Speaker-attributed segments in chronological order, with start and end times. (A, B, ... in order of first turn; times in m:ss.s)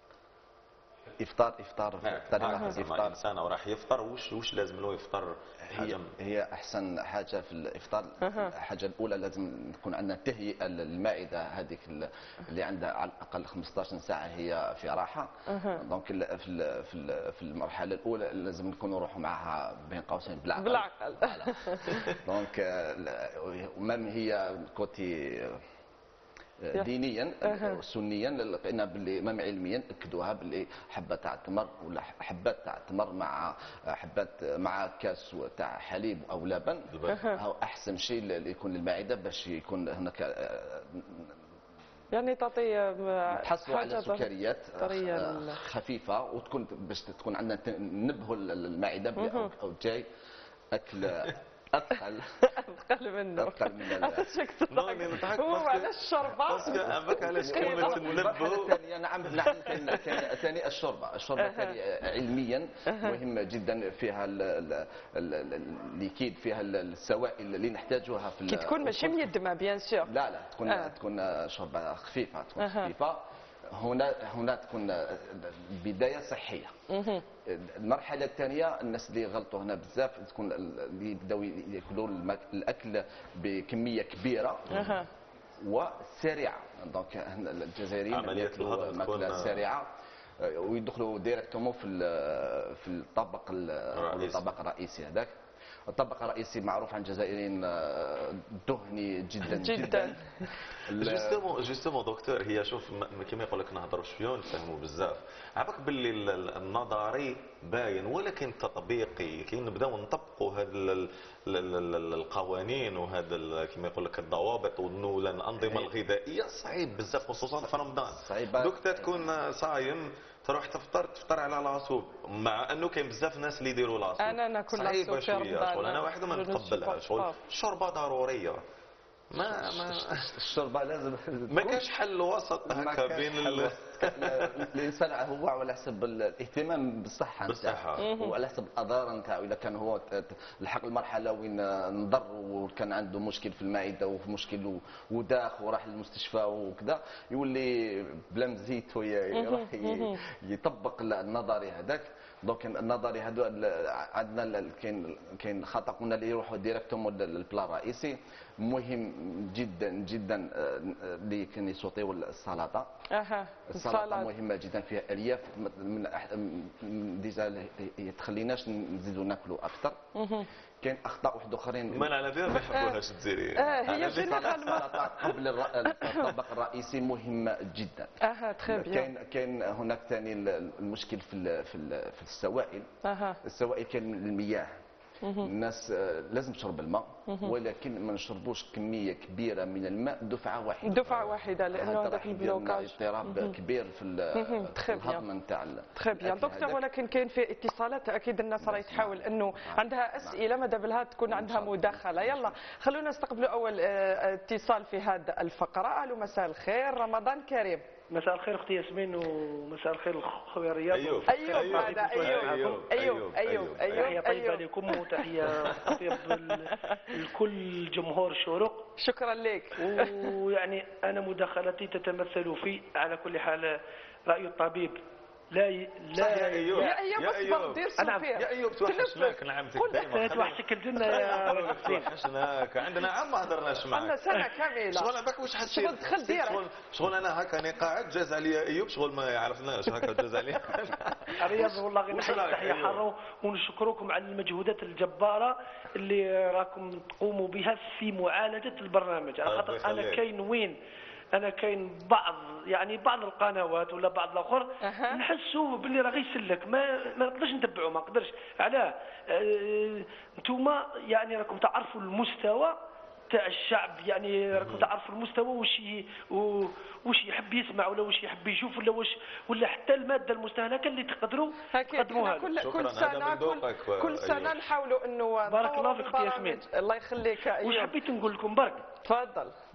0:01.2-0:03.2 A
0:02.0-0:06.1 B
0:05.7-0:25.6 A
0:08.2-0:08.5 C
0:15.5-0:15.8 C
0:20.6-0:22.1 C
0:26.6-0:41.3 A
0:27.4-0:27.8 C
0:36.9-0:37.2 B
0:37.1-0:37.4 C
0:42.1-0:45.6 C
0:43.3-0:50.1 A
0:49.2-0:49.5 C
0:50.7-0:52.4 A
0:52.5-0:58.1 C
0:53.4-0:54.3 A
0:54.7-0:58.8 B
0:56.6-1:09.3 A
1:01.4-1:01.8 C
1:02.9-1:03.2 C
1:08.5-1:10.1 C
1:10.0-1:16.7 A
1:10.7-1:10.9 C
1:12.6-1:12.9 C
1:16.9-1:17.2 C
1:17.4-1:25.0 A
1:24.7-1:25.1 C
1:25.6-1:29.9 A
1:28.1-1:29.6 B
1:30.4-1:35.3 A
1:34.0-1:34.4 B
1:35.9-1:40.2 A
1:39.5-1:40.5 C
1:40.9-1:41.4 A
1:40.9-2:08.6 B
1:55.6-1:55.9 A
1:58.0-1:59.3 A
2:04.2-2:07.4 C
2:09.3-2:10.2 B
2:09.4-2:11.9 A
2:11.5-2:14.6 B
2:12.7-2:42.9 A
2:17.4-2:18.1 B
2:18.0-2:18.4 C
2:29.3-2:30.2 C
2:43.1-2:44.3 C
2:43.7-2:50.0 A
2:50.1-2:50.5 C
2:50.8-2:52.1 A
2:51.9-2:54.8 B
2:52.7-2:53.0 C
2:53.6-2:55.0 C
2:53.7-2:58.1 A
2:55.9-2:56.3 C
2:58.2-2:59.1 C
2:58.7-3:02.9 A
3:03.0-3:03.4 C
3:03.4-3:04.7 A
3:05.2-3:05.5 C
3:05.4-3:16.8 A
3:07.3-3:07.5 C
3:10.8-3:13.5 C
3:14.4-3:15.2 C
3:16.0-3:27.8 C
3:18.6-3:20.4 A
3:21.3-3:22.5 A
3:28.1-3:32.8 D
3:30.9-3:34.1 B
3:31.3-3:35.0 C
3:33.9-3:38.8 D
3:39.0-3:40.3 C
3:39.8-3:45.0 D
3:45.5-3:47.0 D
3:46.2-3:47.8 B
3:46.8-3:50.0 C
3:48.0-3:48.3 D
3:48.4-3:54.2 B
3:49.9-3:52.1 D
3:51.2-3:51.5 C
3:53.9-3:55.1 C
3:54.9-4:03.0 B
3:55.6-3:56.6 C
4:01.4-4:10.8 D
4:09.4-4:10.2 B
4:11.3-4:22.8 D
4:14.8-4:15.2 C
4:23.3-4:32.5 D
4:24.5-4:24.9 B
4:31.7-4:37.9 C
4:32.6-4:34.6 B
4:35.4-4:36.6 D
4:37.6-4:38.8 D
4:39.0-4:39.5 C